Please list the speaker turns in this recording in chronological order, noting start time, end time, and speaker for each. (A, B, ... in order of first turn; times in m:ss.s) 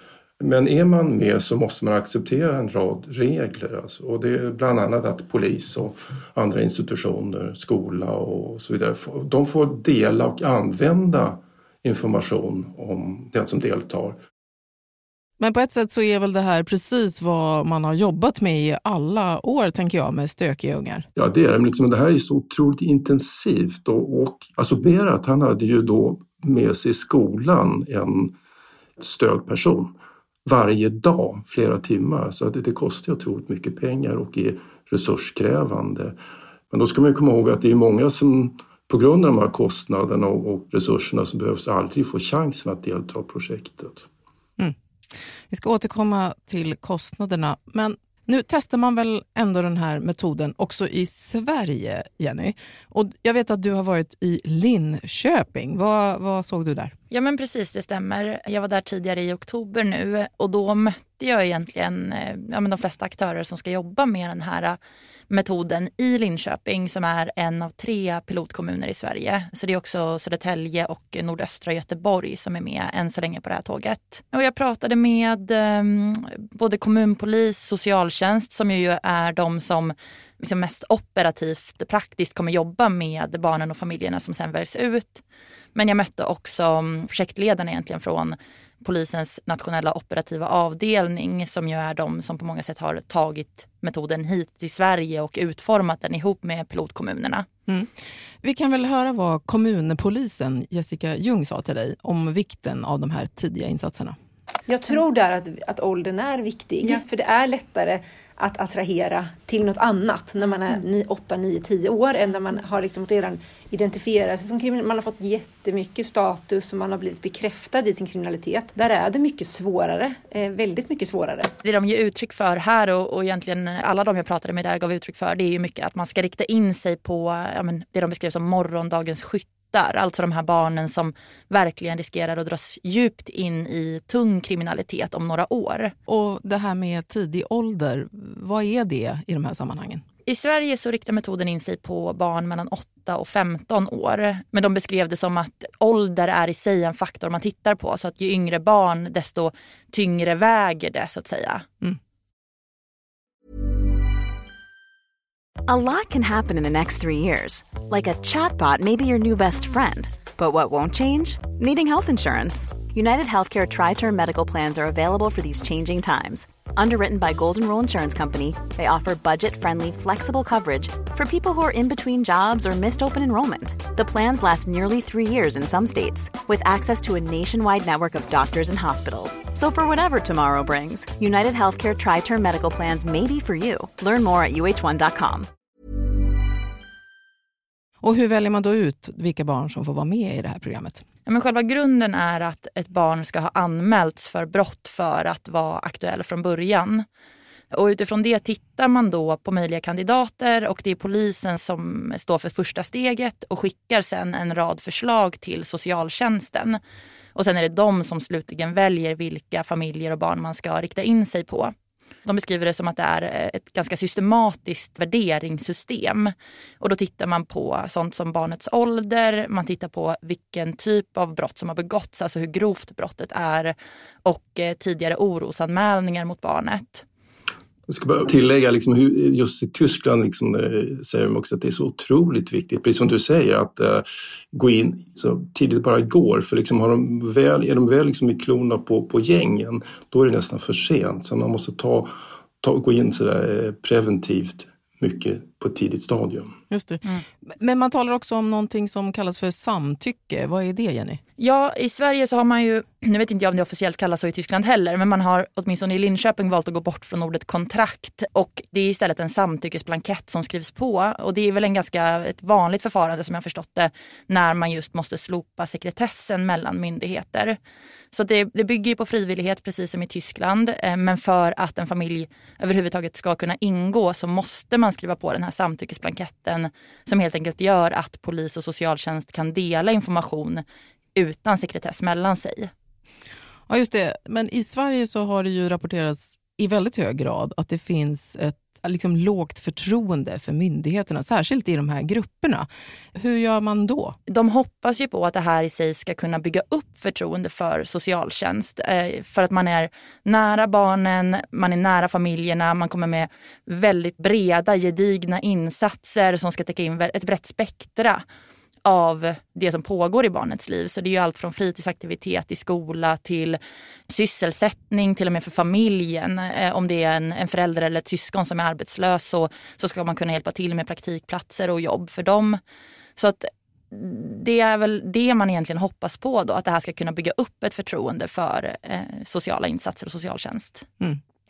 0:00.4-0:14.2 A
0:15.4-0:21.0 B
0:21.2-0:28.3 A
0:29.0-0:29.9 A
0:30.4-0:36.1 A
0:36.7-0:44.1 A
0:45.5-0:56.9 B
0:57.1-1:04.8 C
1:05.3-1:25.2 C
1:25.7-1:37.4 C
1:38.4-1:44.2 B
1:44.7-2:01.5 D
2:01.6-2:15.9 C
2:16.1-2:20.0 B
2:20.2-2:31.7 C
2:35.7-3:05.5 E
3:08.0-3:11.0 B
3:11.2-3:17.0 C
3:17.7-3:26.8 C
3:27.3-3:31.7 C
3:32.2-3:43.7 C
3:44.2-3:47.0 C
3:47.9-4:02.1 A
4:02.6-4:06.5 A
4:06.7-4:11.2 B
4:11.4-4:27.6 C
4:28.1-4:40.6 C
4:41.2-4:42.7 C
4:43.7-4:54.2 B
4:54.3-5:08.2 C
5:08.8-5:13.6 C
5:14.1-5:22.6 C
5:23.2-5:30.9 C